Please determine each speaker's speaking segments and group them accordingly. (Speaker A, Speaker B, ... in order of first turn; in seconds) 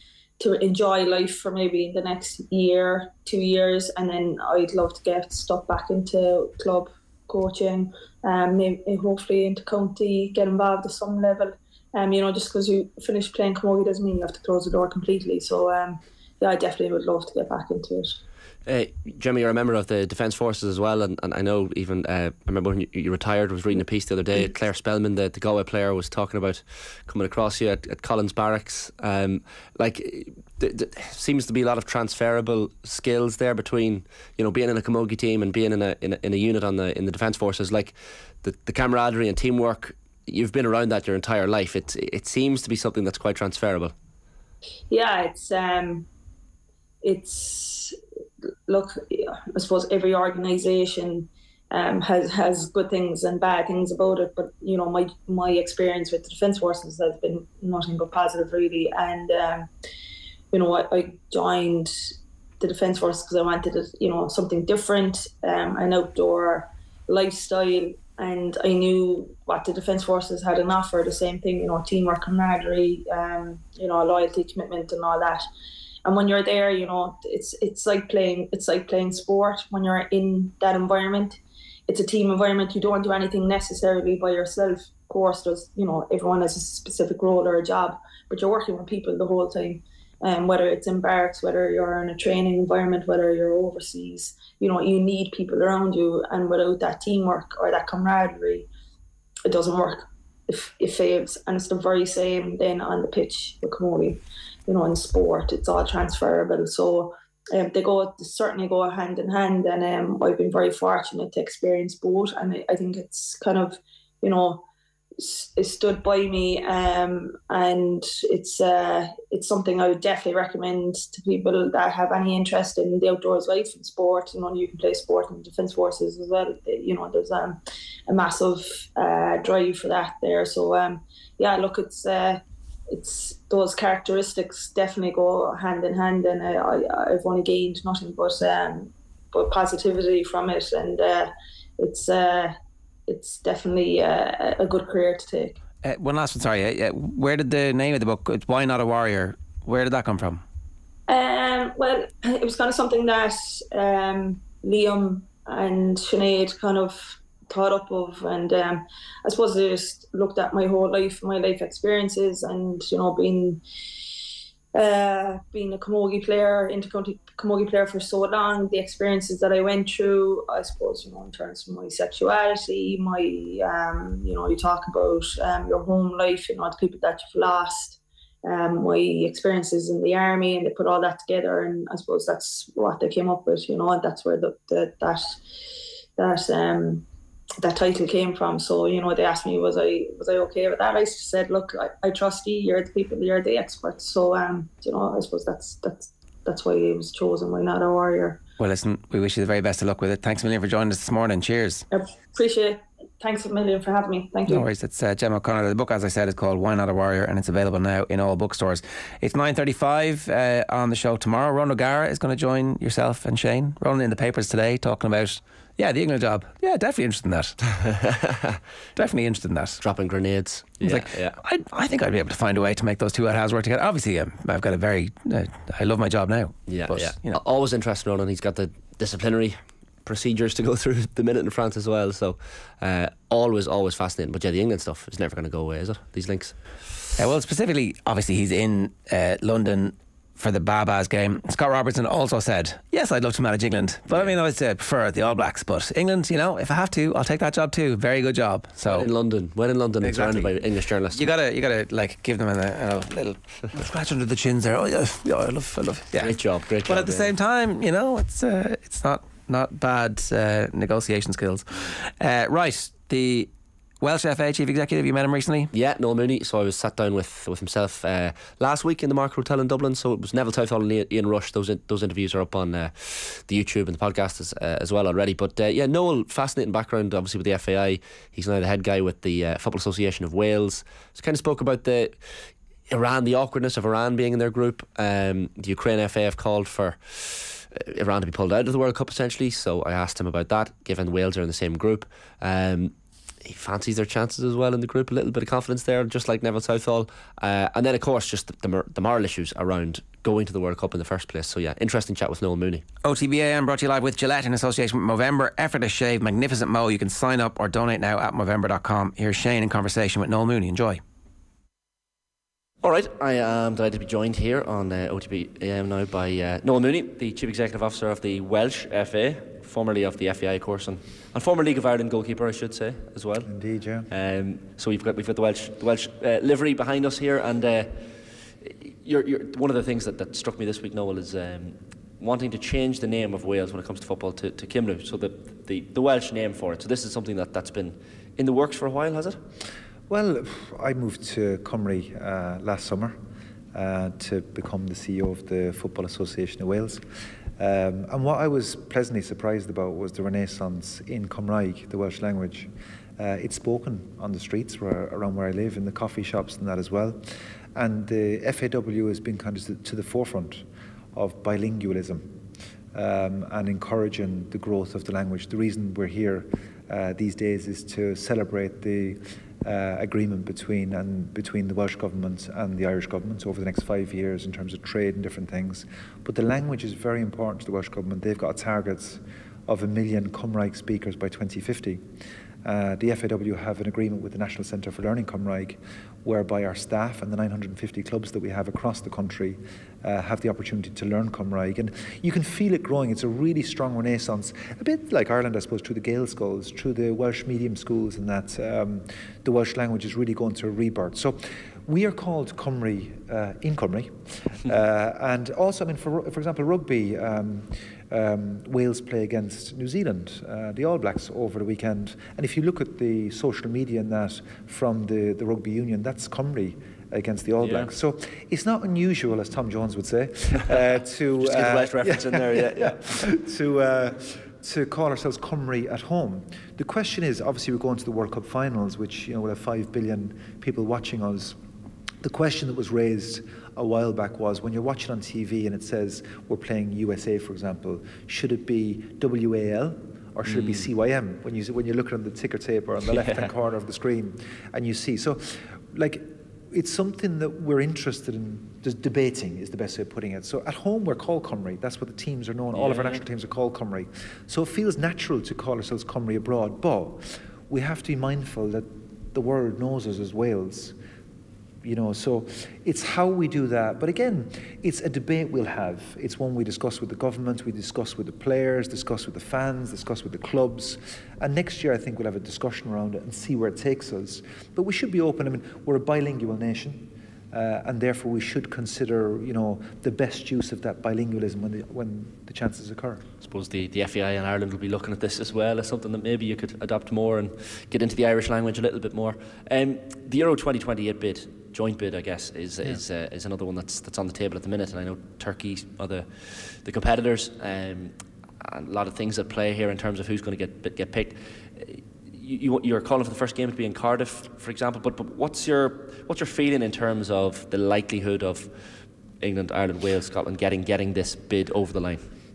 Speaker A: 0.4-18.2, 44.9-46.0, 47.0-48.0, 48.7-59.7, 60.5-61.9, 62.6-75.4, 76.0-98.7, 99.5-114.6, 115.2-142.5, 143.1-145.6, 151.1-163.6, 164.7-185.3, 186.2-187.1, 187.6-198.4, 201.9-204.7
Speaker B: 18.6-43.9, 217.8-218.6, 219.8-221.4, 226.7-236.6, 248.8-251.3, 256.2-257.3, 265.7-282.2, 282.9-302.8, 312.8-323.5, 324.1-339.4, 417.6-417.9, 421.4-423.1, 440.4-440.9, 443.0-443.5, 452.7-453.2, 483.4-508.7, 509.4-512.2
Speaker C: 145.8-150.4, 198.6-201.8, 204.4-217.6, 218.9-219.8, 220.8-227.4, 237.2-249.1, 250.0-263.5, 264.0-265.7, 303.0-311.0
Speaker D: 323.4-324.1, 340.1-343.2, 343.7-347.0, 347.6-357.2, 357.8-362.4, 362.9-382.0, 382.6-431.6, 432.2-460.9, 461.8-483.2